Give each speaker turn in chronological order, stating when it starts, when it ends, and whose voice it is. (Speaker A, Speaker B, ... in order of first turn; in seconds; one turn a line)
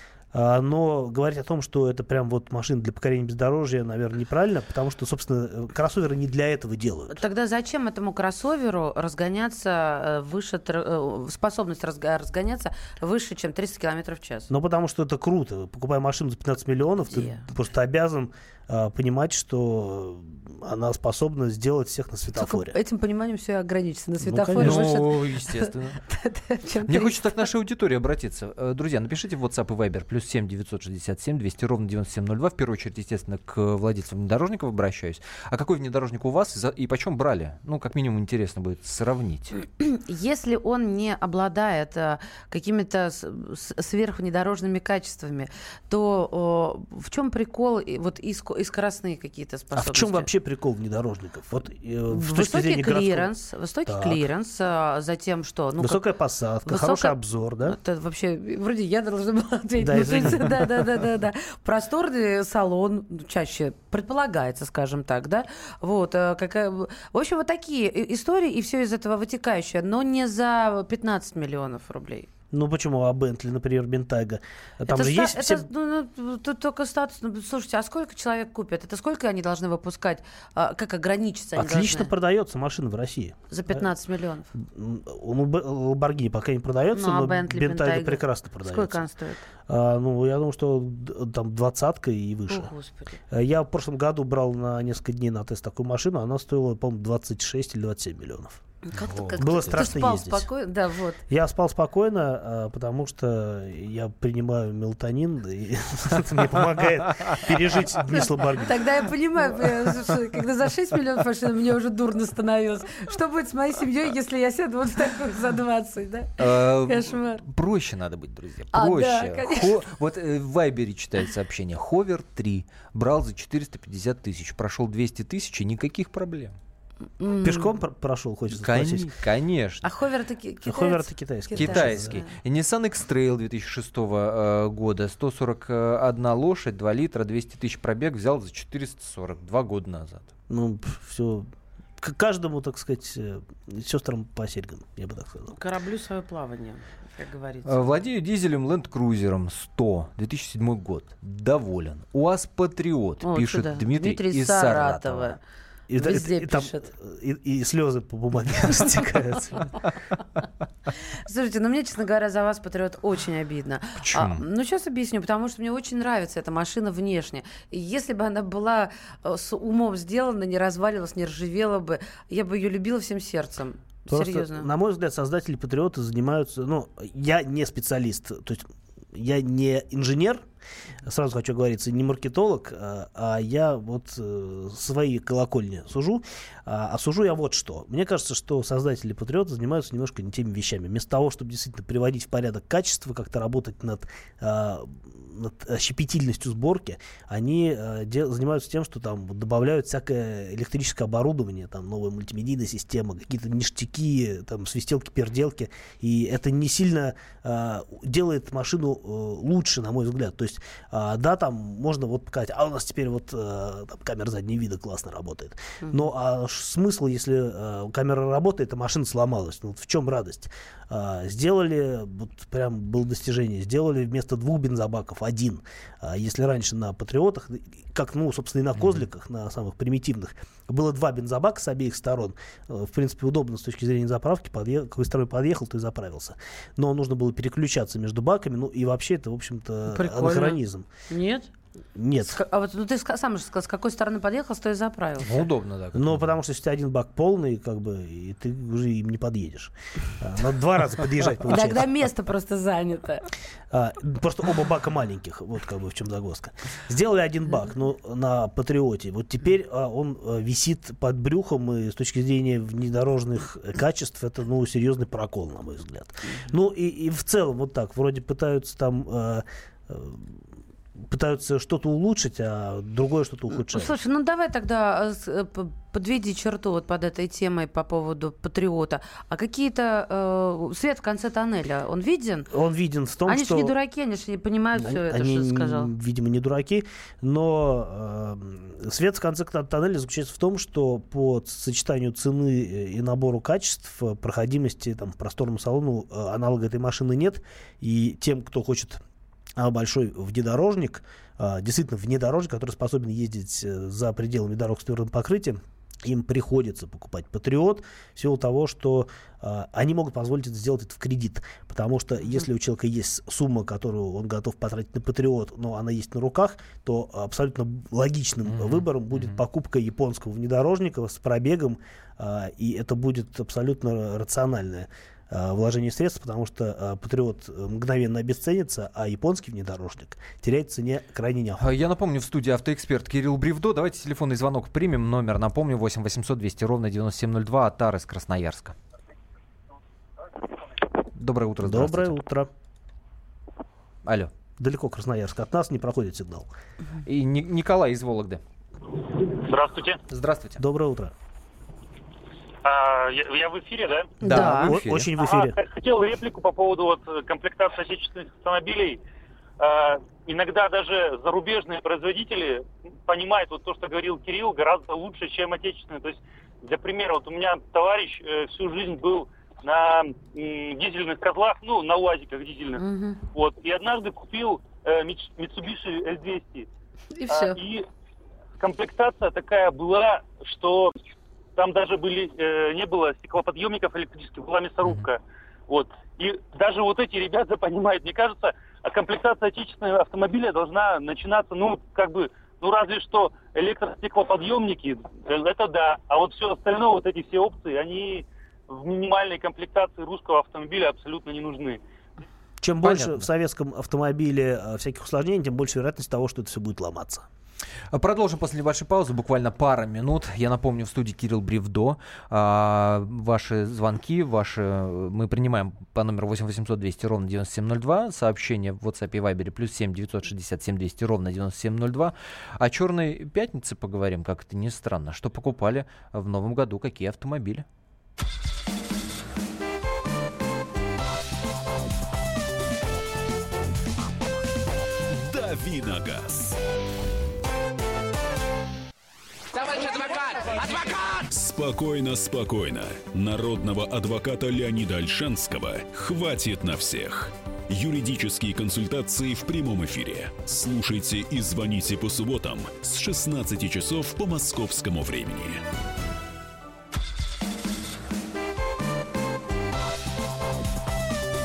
Speaker A: 0.3-7.2
Speaker B: 7.1-14.5
Speaker A: 14.5-22.8
Speaker B: 17.1-17.4
Speaker B: 22.4-27.2
Speaker A: 24.2-24.9
Speaker C: 24.6-26.0
Speaker C: 26.9-39.6
Speaker B: 39.6-50.3
Speaker A: 49.8-53.3
Speaker B: 52.1-56.0
Speaker A: 53.9-54.2
Speaker A: 55.8-57.8
Speaker B: 56.6-72.3
Speaker A: 59.8-60.6
Speaker A: 72.5-75.7
Speaker B: 74.9-82.1
Speaker A: 81.6-83.9
Speaker B: 83.5-84.5
Speaker A: 84.5-89.0
Speaker B: 86.9-89.4
Speaker A: 89.7-92.7
Speaker B: 92.5-93.2
Speaker A: 93.3-100.5
Speaker B: 98.9-101.2
Speaker A: 101.3-108.8
Speaker B: 108.6-117.4
Speaker C: 116.4-126.6
Speaker B: 118.7-119.7
Speaker B: 127.2-127.7
Speaker A: 127.4-129.1
Speaker C: 128.5-129.8
Speaker B: 129.8-132.3
Speaker A: 130.6-132.2
Speaker C: 131.5-140.3
Speaker A: 140.5-141.5
Speaker A: 142.0-145.6
Speaker B: 145.5-147.9
Speaker C: 147.7-155.3
Speaker B: 153.2-155.4
Speaker A: 155.9-159.7
Speaker B: 156.0-156.9
Speaker B: 161.3-174.7
Speaker C: 164.0-164.4
Speaker A: 174.1-180.4
Speaker A: 181.0-240.9
Speaker B: 239.9-240.6
Speaker B: 241.1-241.5
Speaker A: 241.9-242.4
Speaker B: 242.2-245.4
Speaker C: 245.2-246.3
Speaker A: 245.9-251.9
Speaker B: 251.5-253.3
Speaker A: 253.7-270.4
Speaker A: 271.0-273.9
Speaker B: 273.6-282.5
Speaker A: 282.5-283.7
Speaker B: 283.3-285.9
Speaker A: 284.8-299.0
Speaker A: 299.6-331.7
Speaker C: 318.5-319.4
Speaker C: 331.6-338.8
Speaker C: 341.1-342.2
Speaker A: 341.6-342.5
Speaker C: 344.1-344.3
Speaker A: 344.6-346.5
Speaker C: 347.1-348.4
Speaker D: 349.2-350.0
Speaker C: 350.1-350.6
Speaker A: 350.6-351.1
Speaker D: 352.6-354.2
Speaker B: 354.2-354.7
Speaker A: 354.2-355.6
Speaker C: 354.2-355.1
Speaker D: 355.2-359.0
Speaker D: 359.6-376.7
Speaker B: 372.8-373.2
Speaker B: 377.1-377.6
Speaker D: 377.3-377.9
Speaker D: 378.6-381.0
Speaker D: 381.6-401.8
Speaker A: 402.6-407.3
Speaker C: 402.8-403.3
Speaker C: 407.9-427.6
Speaker E: 435.1-436.6
Speaker E: 441.2-455.6